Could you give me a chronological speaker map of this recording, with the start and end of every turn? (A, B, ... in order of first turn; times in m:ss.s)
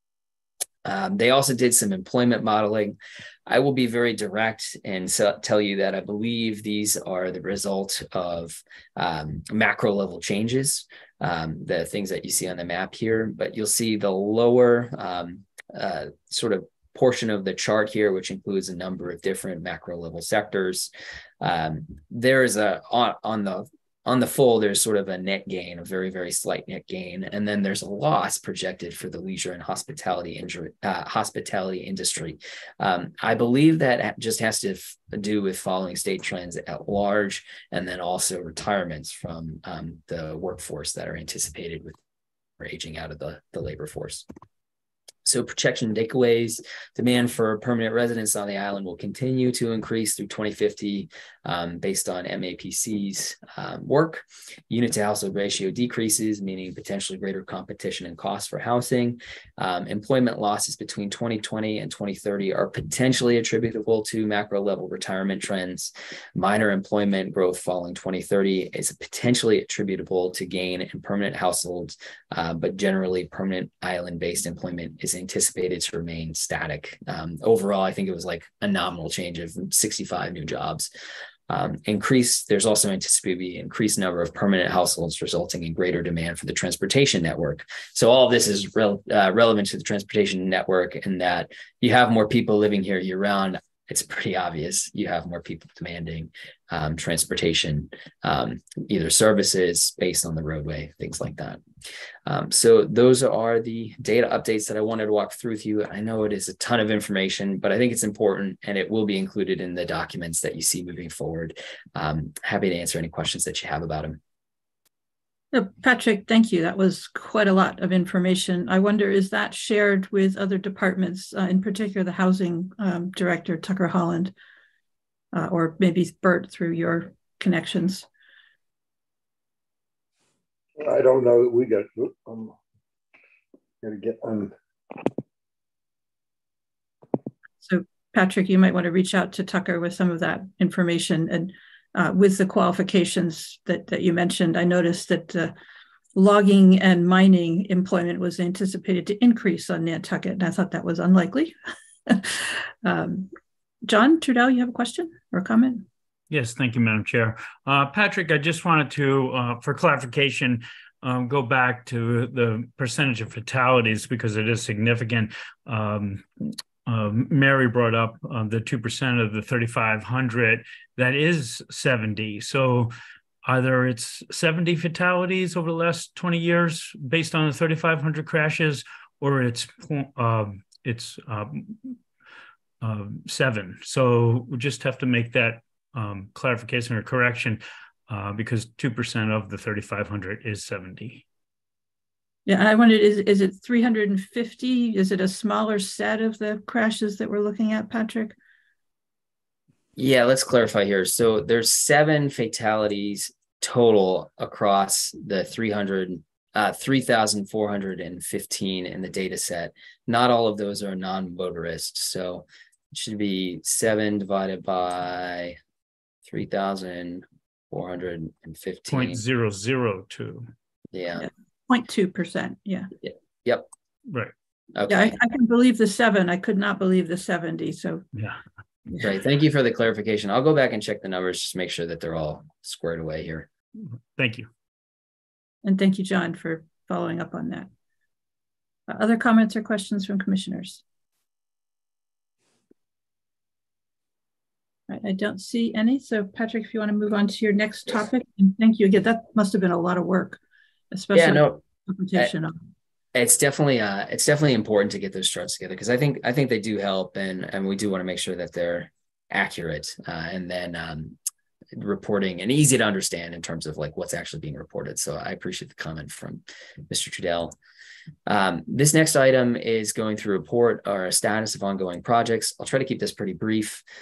0:00.8-0:42.0 A
0:42.6-0:44.2 A
0:45.2-1:20.9 A
1:21.5-1:41.6 A
1:42.2-1:54.2 A
1:55.5-2:04.3 B
2:05.3-2:08.1 B
2:10.8-2:12.5 C
2:13.8-2:14.5 C
2:17.6-2:25.5 B
2:26.1-2:31.5 B
2:32.1-2:33.3 B
2:33.9-2:35.8 B
2:36.3-2:46.2 D
2:46.8-2:52.9 D
2:53.4-3:01.8 D
3:02.8-3:11.2 D
3:12.4-3:18.4 B
3:20.0-3:35.6 A
3:36.3-3:39.2 A
3:38.9-3:40.5 D
3:40.9-3:41.3 A
3:41.2-3:42.9 B
3:43.1-3:43.6 A
3:44.1-3:44.3 D
3:44.8-3:45.1 A
3:44.9-3:48.0 B
3:48.1-3:48.4 D
3:49.0-3:53.5 A
3:54.2-3:54.5 D
3:55.6-3:57.7 B
3:58.9-4:00.8 B
4:04.9-4:10.4 B
4:10.9-4:12.5 B
4:11.1-4:11.6 A
4:13.1-4:21.2 A
4:21.8-4:27.5 A
4:28.3-4:33.8 A